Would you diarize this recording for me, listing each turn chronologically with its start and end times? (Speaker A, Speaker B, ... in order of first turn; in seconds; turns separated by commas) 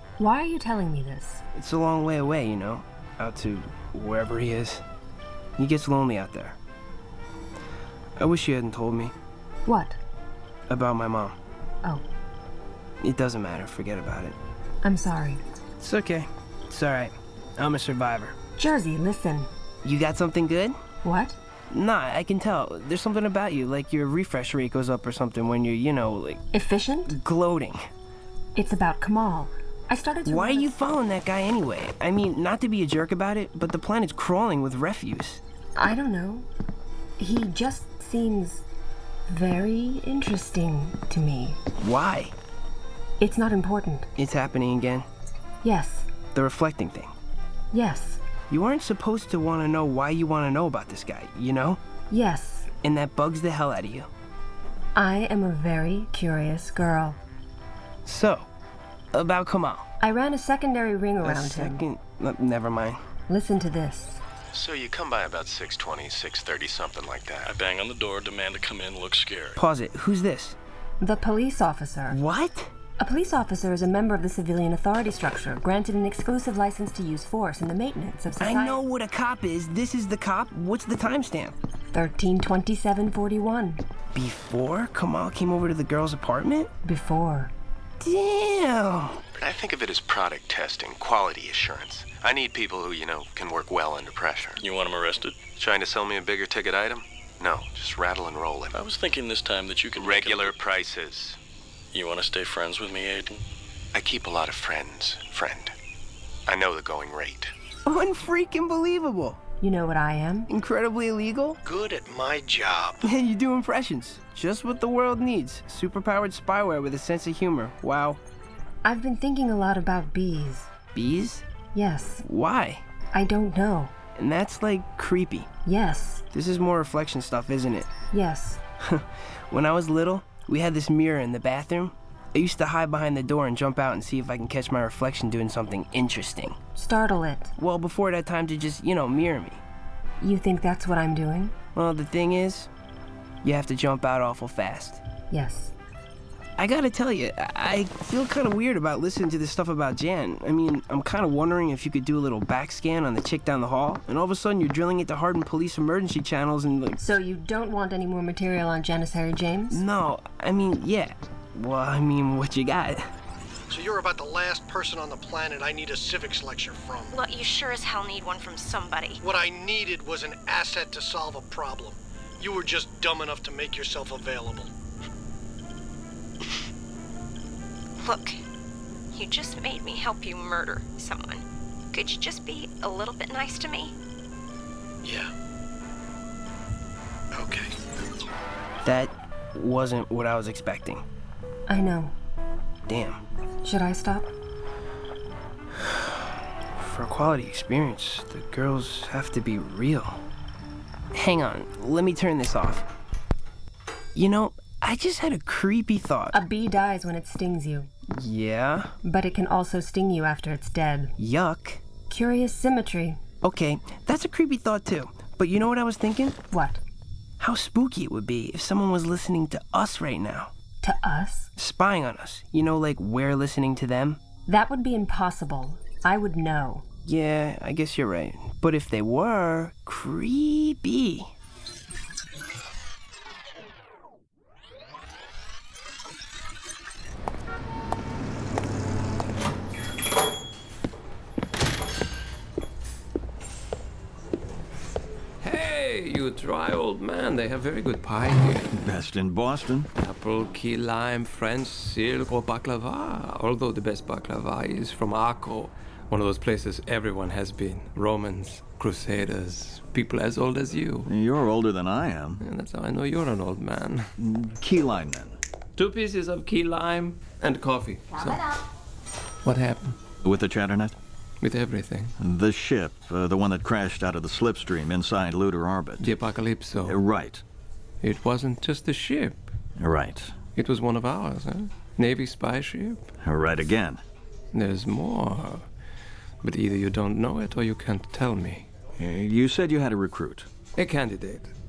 Speaker A: 0.2-1.4, Speaker B: 1.5-4.8, Speaker B: 5.6-6.6, Speaker B: 8.2-9.1, Speaker A: 9.7-10.0, Speaker B: 10.7-11.3, Speaker B: 13.0-14.3, Speaker A: 14.8-15.4, Speaker B: 15.8-18.4, Speaker A: 18.6-19.5, Speaker B: 19.8-20.8, Speaker A: 21.0-21.4, Speaker B: 21.7-26.4, Speaker A: 26.5-27.2, Speaker B: 27.1-27.8, Speaker A: 28.6-30.8, Speaker B: 30.2-35.4, Speaker A: 35.8-36.5, Speaker A: 37.2-38.6, Speaker A: 39.3-41.6, Speaker B: 41.8-42.3, Speaker A: 43.2-44.1, Speaker B: 44.1-45.0, Speaker A: 45.6-46.1, Speaker B: 46.3-47.1, Speaker A: 47.7-48.2, Speaker B: 48.5-51.8, Speaker A: 52.1-52.7, Speaker B: 52.7-54.1, Speaker A: 55.0-57.2, Speaker B: 58.0-58.5, Speaker B: 59.1-59.9, Speaker A: 60.0-61.8, Speaker B: 61.2-63.0, Speaker A: 63.3-64.2, Speaker C: 64.5-67.5, Speaker D: 67.4-69.6, Speaker B: 69.5-70.5, Speaker A: 71.0-72.2, Speaker B: 72.1-72.7, Speaker A: 73.0-78.8, Speaker B: 78.4-81.5, Speaker A: 81.9-83.8, Speaker B: 84.1-86.7, Speaker A: 86.8-87.5, Speaker B: 88.0-89.2, Speaker C: 89.4-94.6, Speaker D: 94.6-95.4, Speaker C: 95.5-98.8, Speaker D: 98.7-100.5, Speaker C: 100.0-101.4, Speaker D: 101.9-103.4, Speaker C: 103.9-105.8, Speaker C: 106.5-107.5, Speaker B: 107.8-109.4, Speaker A: 109.6-110.5, Speaker B: 110.5-111.6, Speaker E: 111.6-113.0, Speaker B: 113.0-118.2, Speaker A: 118.8-120.7, Speaker B: 120.9-121.4, Speaker A: 121.7-122.2, Speaker B: 122.2-122.8, Speaker A: 123.1-123.9, Speaker B: 124.2-125.5, Speaker A: 125.6-126.2, Speaker B: 126.3-127.9, Speaker A: 128.1-128.6, Speaker B: 128.8-136.6, Speaker A: 136.8-137.5, Speaker B: 137.6-139.6, Speaker A: 140.2-141.5, Speaker B: 141.7-142.7, Speaker B: 143.4-145.0, Speaker A: 145.3-145.7, Speaker B: 146.6-157.0, Speaker A: 157.0-159.8, Speaker B: 159.7-163.1, Speaker E: 163.7-167.1, Speaker F: 167.1-169.2, Speaker E: 169.2-174.7, Speaker F: 178.0-178.4, Speaker F: 179.1-183.9, Speaker C: 185.0-185.3, Speaker C: 187.3-187.7, Speaker B: 188.8-191.0, Speaker A: 191.7-192.1, Speaker B: 192.9-193.2, Speaker A: 193.6-194.3, Speaker B: 196.8-200.2, Speaker B: 201.1-202.8, Speaker B: 204.1-206.4, Speaker A: 206.3-207.9, Speaker B: 208.1-208.9, Speaker A: 209.0-211.1, Speaker B: 211.2-211.8, Speaker A: 212.1-213.2, Speaker B: 213.4-216.4, Speaker A: 216.5-216.8, Speaker B: 217.4-220.5, Speaker A: 220.8-221.5, Speaker B: 221.6-224.2, Speaker A: 224.5-226.8, Speaker B: 227.0-231.3, Speaker G: 245.4-248.7, Speaker H: 248.7-249.9, Speaker G: 250.0-261.1, Speaker H: 261.0-262.4, Speaker G: 262.4-264.1, Speaker H: 264.2-265.4, Speaker G: 265.8-268.6, Speaker G: 269.4-270.0, Speaker H: 270.2-270.9, Speaker G: 271.4-272.1, Speaker H: 272.2-276.1, Speaker G: 276.0-277.0, Speaker H: 276.8-277.4, Speaker G: 278.0-279.4, Speaker H: 279.8-280.3, Speaker G: 280.6-283.0, Speaker H: 283.2-284.0, Speaker G: 284.5-285.6, Speaker G: 286.4-288.7, Speaker H: 289.0-290.5, Speaker G: 290.8-291.5